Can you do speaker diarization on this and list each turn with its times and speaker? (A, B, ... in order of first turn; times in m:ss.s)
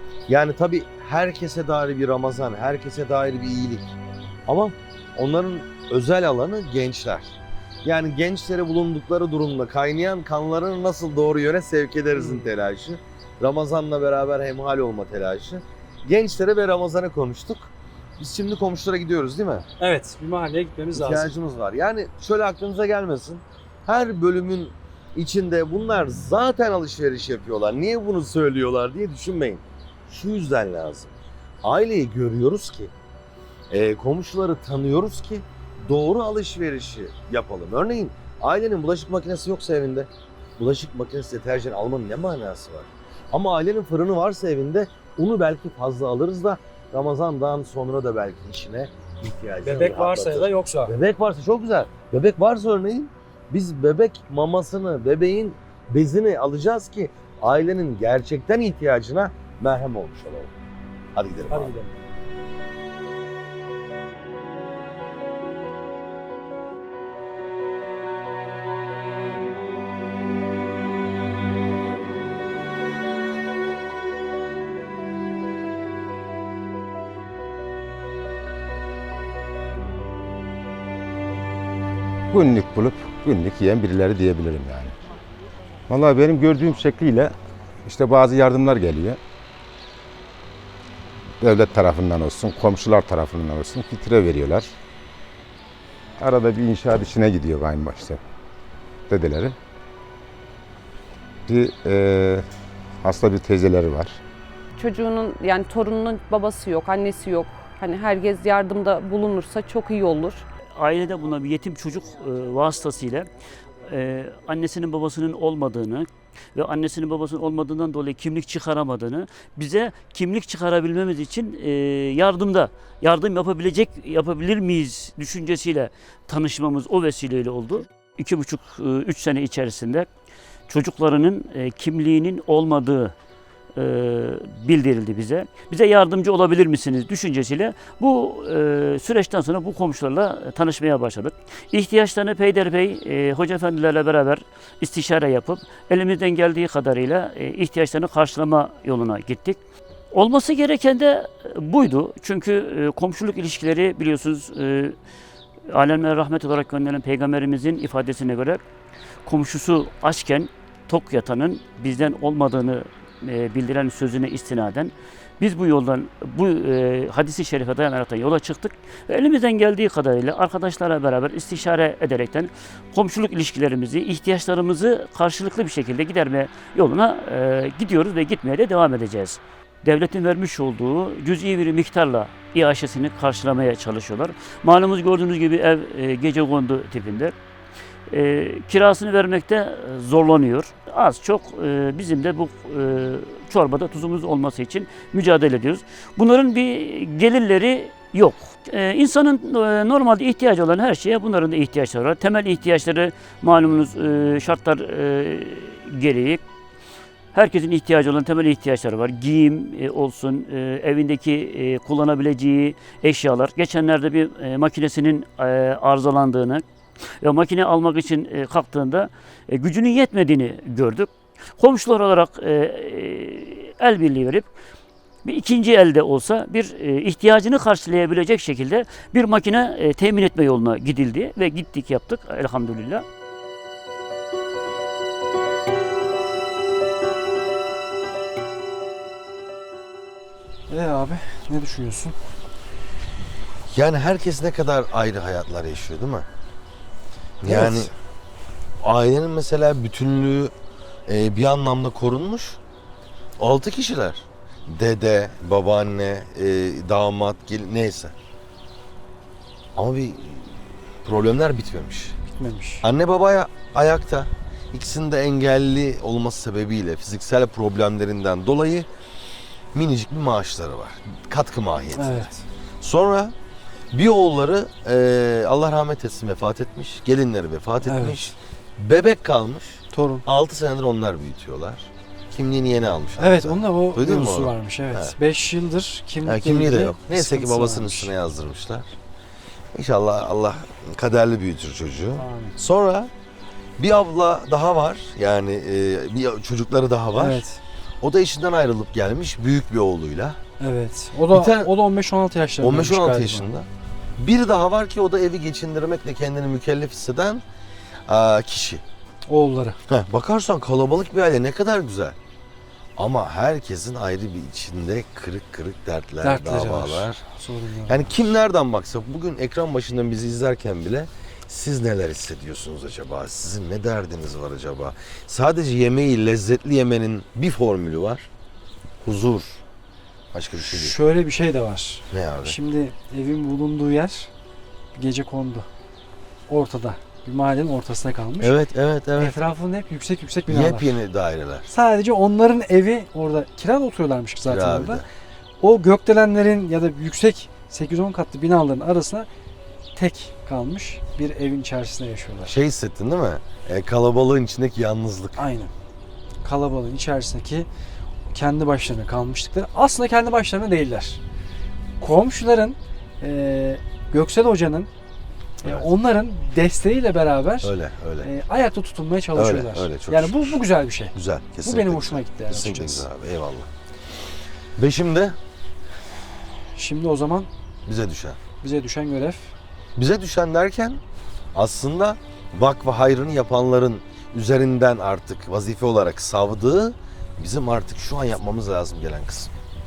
0:00.3-0:19.6 A
0:12.1-0:12.5 B
0:19.8-0:21.3 B
0:20.9-0:32.9 A
0:33.7-1:00.5 A
0:49.6-0:51.0 B
1:01.2-1:01.7 A
1:01.5-1:02.0 B
1:22.3-1:24.9 C
1:25.9-1:27.3 C
1:27.8-1:29.2 C
1:31.4-1:34.7 C
1:36.2-1:38.2 C
1:39.1-1:39.5 C
1:41.5-1:42.5 C
1:43.0-1:44.2 C
1:44.8-1:50.4 D
1:50.8-1:53.3 E
1:53.9-2:10.1 E
2:10.7-2:13.1 E
2:13.8-2:29.6 E
2:30.1-2:35.0 E
2:35.7-2:38.6 E
2:39.3-3:07.3 E
3:08.1-3:26.4 E
3:27.3-3:36.6 E
3:37.2-3:44.5 E
3:45.2-3:53.0 E
4:00.7-4:02.2 B
4:03.7-4:06.3 A
4:07.4-4:07.9 B
4:07.4-4:07.9 A
4:08.8-4:10.5 A
4:11.1-4:12.6 A
4:13.4-4:18.1 A
4:19.8-4:22.2 A
4:22.3-4:22.8 B
4:22.8-4:28.9 A
4:29.7-4:32.3 A
4:32.0-4:32.4 B
4:32.8-4:33.3 A
4:33.9-4:45.2 A
4:37.8-4:38.3 B
4:39.9-4:40.2 B
4:43.2-4:48.1 B
4:46.2-4:48.9 A
4:49.7-4:53.1 A
4:52.2-4:52.6 B
4:53.8-4:57.4 A
4:57.2-4:57.6 B
4:58.0-5:00.4 A
5:00.6-5:03.5 B
5:01.3-5:01.7 A
5:02.6-5:03.7 A
5:04.2-5:07.4 A
5:08.1-5:08.8 A
5:09.3-5:09.8 B
5:09.9-5:12.2 A
5:13.0-5:17.2 A
5:16.2-5:18.2 B
5:17.9-5:28.3 A
5:29.0-5:29.6 A
5:30.3-5:31.0 A
5:30.6-5:34.3 B
5:32.1-5:32.6 A
5:35.0-5:35.7 B
5:36.5-5:38.6 B
5:38.4-5:39.4 A
5:39.2-5:41.0 B
5:40.5-5:41.7 A
5:41.7-5:45.0 B
5:44.4-5:45.0 A
5:45.6-5:49.3 B
5:50.0-5:52.6 B
5:52.4-5:55.5 A
5:55.4-5:55.7 B
5:56.4-5:57.7 B
5:58.3-6:01.2 B
6:02.0-6:04.9 B
6:05.6-6:13.1 B
6:07.6-6:08.3 A
6:09.4-6:10.6 A
6:11.1-6:13.7 A
6:14.8-6:15.4 A
6:16.7-6:17.5 B
6:17.9-6:18.4 A
6:18.6-6:19.5 B
6:20.0-6:21.0 A
6:21.6-6:29.5 A